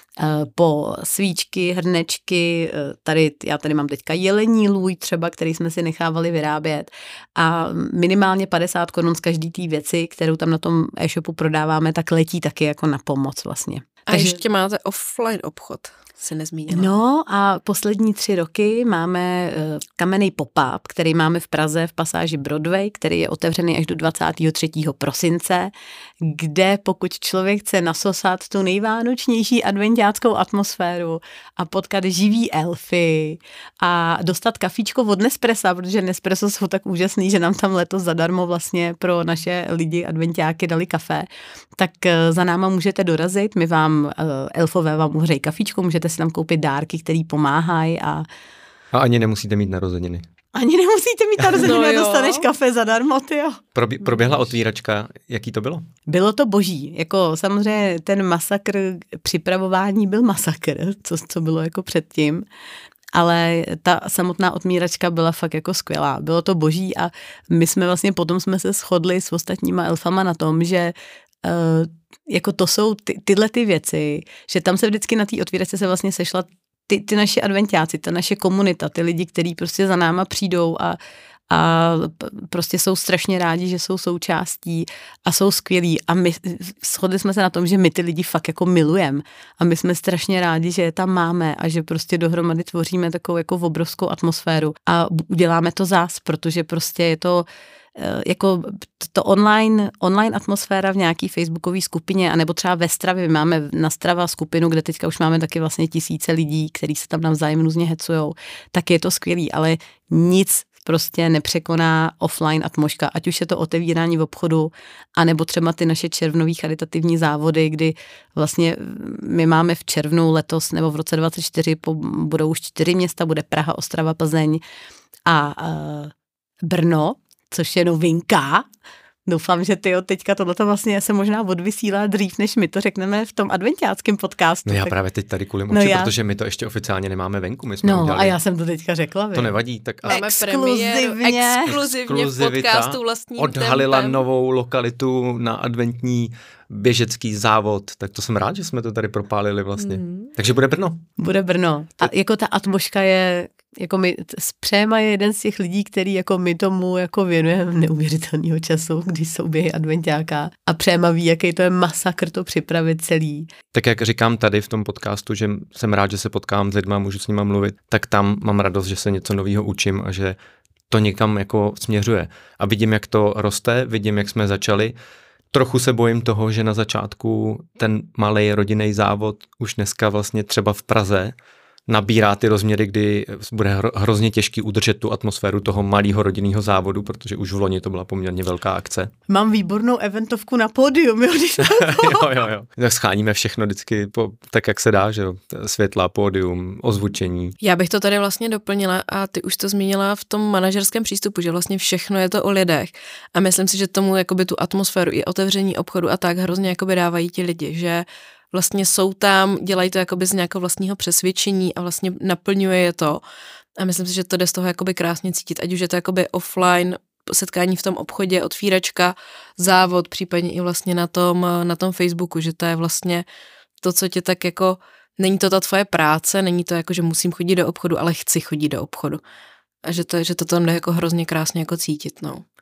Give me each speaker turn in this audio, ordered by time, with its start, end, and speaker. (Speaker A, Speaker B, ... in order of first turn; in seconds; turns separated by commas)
Speaker A: 0.2-14.4, Speaker B: 14.1-16.9, Speaker A: 16.7-48.2, Speaker C: 48.9-50.2, Speaker A: 50.5-53.6, Speaker B: 51.6-52.5, Speaker C: 53.7-55.9, Speaker A: 56.1-62.4, Speaker A: 63.1-81.0, Speaker A: 81.5-124.6, Speaker A: 125.2-128.7, Speaker A: 129.2-134.9, Speaker C: 134.7-138.4, Speaker A: 135.7-136.1, Speaker A: 137.8-141.8, Speaker C: 139.3-140.2, Speaker B: 140.1-144.2, Speaker C: 141.7-151.0, Speaker A: 151.2-163.5, Speaker C: 163.7-170.3, Speaker C: 170.9-174.9, Speaker C: 175.5-181.3, Speaker C: 181.9-189.1, Speaker A: 189.3-192.3, Speaker C: 191.6-197.6, Speaker B: 197.6-213.2, Speaker B: 213.8-223.2, Speaker B: 223.8-229.2, Speaker B: 229.8-232.4